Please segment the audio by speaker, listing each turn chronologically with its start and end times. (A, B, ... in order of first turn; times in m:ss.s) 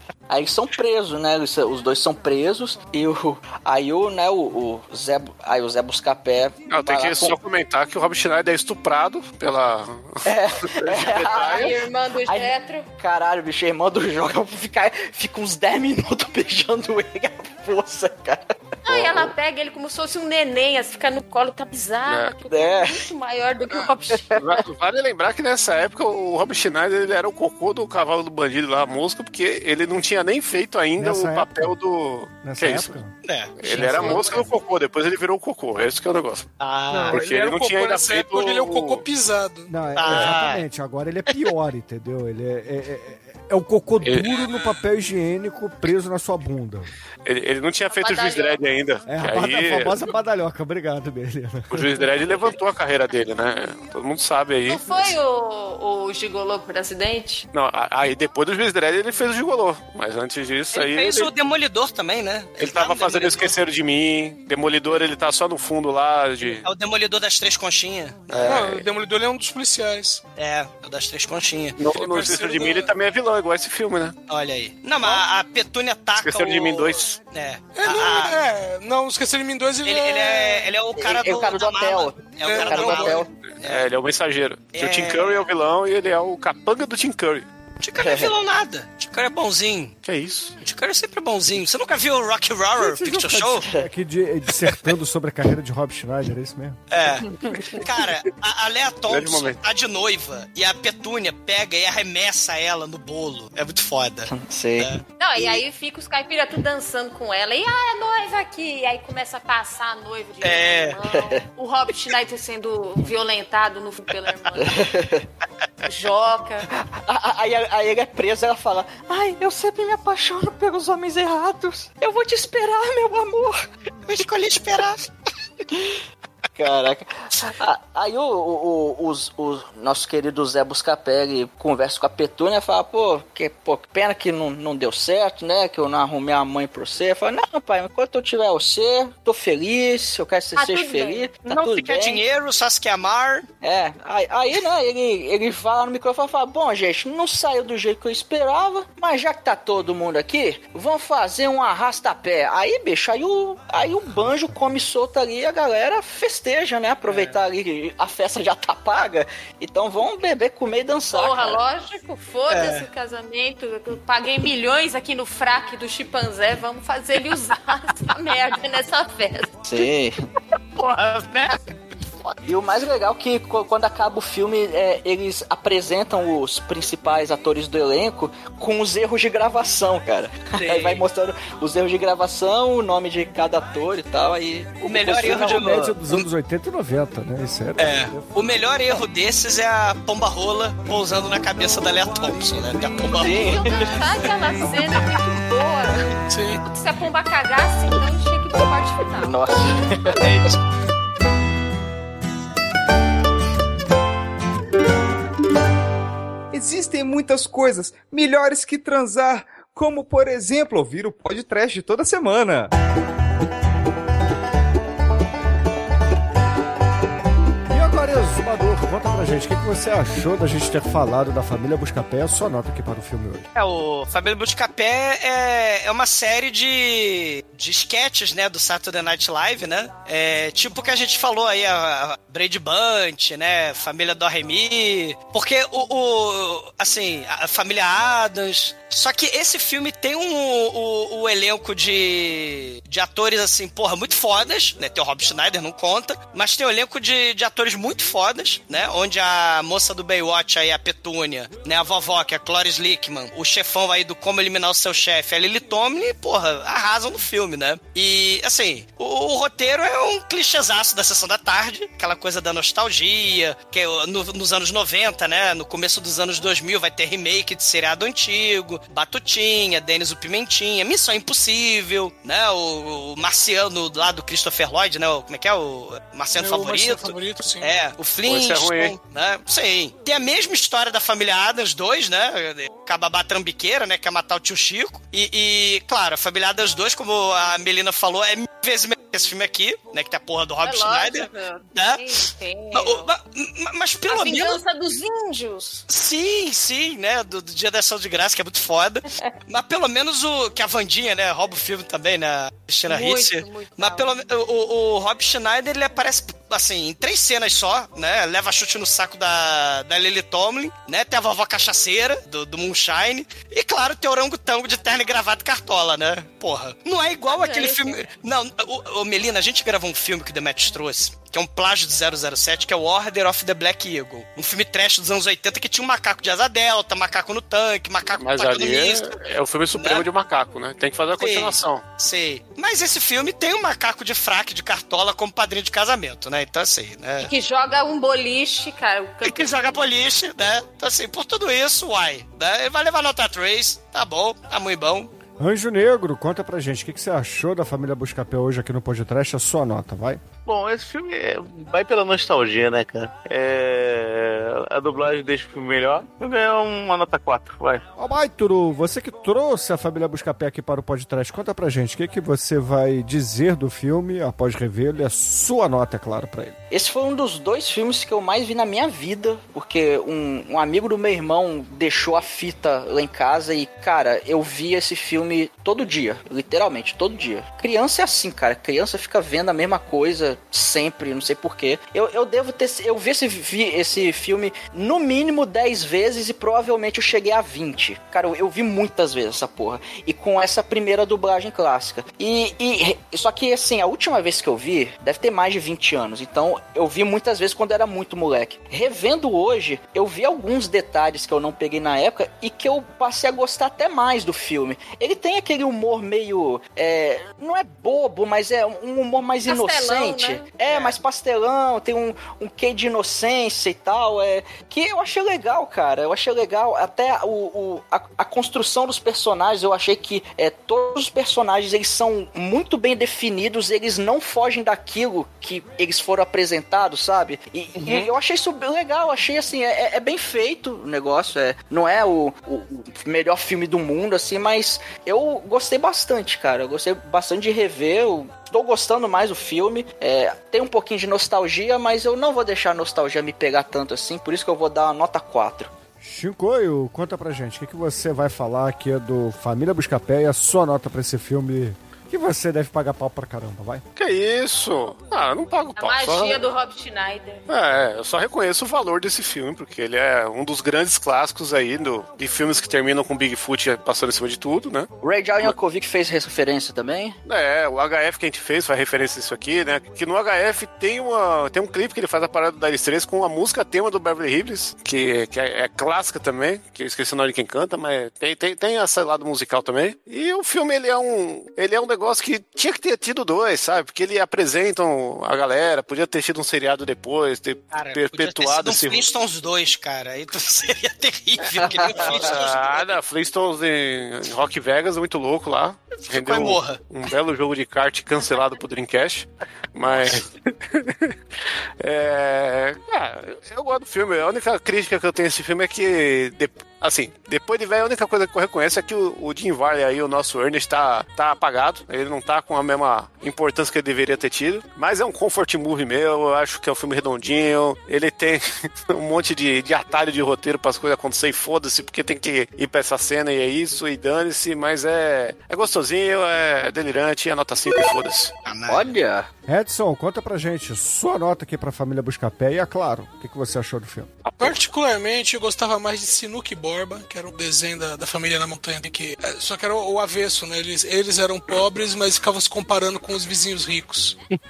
0:00.3-0:07.4 A
0:06.7-0:11.7 B
0:10.2-0:18.4 A
0:11.1-0:12.9 C
0:18.8-0:24.3 C
0:18.9-0:19.3 B
0:22.0-0:22.3 B
0:22.5-0:23.0 A
0:24.4-0:33.0 B
0:31.0-0:31.8 D
0:32.4-0:33.1 D
0:33.2-0:34.3 E
0:33.6-0:36.4 B
0:33.7-0:34.5 C
0:36.6-0:37.2 E
0:36.9-0:39.7 F
0:37.1-0:39.0 B
0:39.7-0:46.9 D
0:40.0-0:40.6 E
0:44.0-0:44.4 B
0:47.2-0:50.0 B
0:47.9-0:48.6 C
0:49.1-0:52.1 D
0:51.7-0:55.2 B
0:54.7-0:57.5 C
0:57.5-1:01.3 B
1:00.7-1:03.5 E
1:02.6-1:06.7 B
1:06.6-1:08.6 E
1:08.3-1:08.8 B
1:08.4-1:10.2 F
1:10.4-1:11.8 E
1:11.8-1:14.2 B
1:11.9-1:12.9 F
1:14.3-1:18.4 E
1:16.2-1:17.2 B
1:17.8-1:20.7 F
1:19.8-1:23.8 E
1:21.0-1:23.3 A
1:22.4-1:23.2 F
1:23.6-1:27.4 B
1:24.7-1:25.5 E
1:27.8-1:29.9 E
1:28.0-1:28.3 A
1:30.0-1:30.5 B
1:30.6-1:33.7 E
1:32.8-1:36.8 D
1:36.9-1:45.0 E
1:39.1-1:39.6 B
1:44.3-1:45.6 A
1:45.2-1:54.9 C
1:50.4-1:51.0 E
1:51.1-1:51.4 A
1:54.6-1:55.2 A
1:55.8-1:56.7 C
1:56.8-2:03.6 A
2:04.1-2:05.0 E
2:05.7-2:06.0 A
2:06.6-2:22.2 A
2:20.6-2:21.3 C
2:21.4-2:23.5 E
2:23.6-2:41.6 A
2:37.1-2:37.4 E
2:41.1-2:49.6 C
2:42.5-2:42.8 E
2:49.6-2:50.2 A
2:50.8-2:51.6 E
2:52.4-3:05.7 A
3:00.5-3:01.0 E
3:04.8-3:06.3 E
3:05.1-3:08.7 D
3:07.8-3:13.5 E
3:13.0-3:16.0 C
3:13.1-3:14.2 A
3:16.3-3:16.6 F
3:16.6-3:19.6 C
3:19.2-3:20.4 A
3:20.2-3:20.5 E
3:26.5-3:32.7 G
3:37.7-3:43.4 D
3:43.5-4:52.0 E
4:36.4-4:37.7 F
4:38.2-4:39.0 B
4:50.6-4:53.1 C
4:52.7-4:54.6 E
4:54.1-4:55.8 C
4:55.9-5:29.1 E
5:02.9-5:04.1 C
5:17.3-5:18.1 C
5:28.2-5:31.8 B
5:29.7-5:30.0 E
5:31.2-5:37.3 E
5:37.2-5:39.8 C
5:39.2-5:45.1 E
5:45.4-5:50.2 D
5:50.4-5:57.8 H
5:58.0-6:06.6 D
6:06.7-7:25.7 A
6:49.4-6:50.5 C
6:50.6-6:51.0 E
7:07.8-7:08.1 E
7:26.0-7:33.8 D
7:34.0-7:36.4 B
7:35.8-7:37.5 C
7:37.5-7:44.9 B
7:45.0-7:47.2 A
7:47.2-8:09.1 B
8:07.7-8:12.9 E
8:11.6-8:12.2 A
8:11.9-8:21.1 B
8:16.1-8:16.8 E
8:19.8-8:20.2 E
8:21.8-8:48.3 B
8:48.4-8:48.9 E
8:48.7-8:49.3 A
8:49.5-8:54.1 D
8:54.2-8:54.6 B
8:54.4-9:04.2 F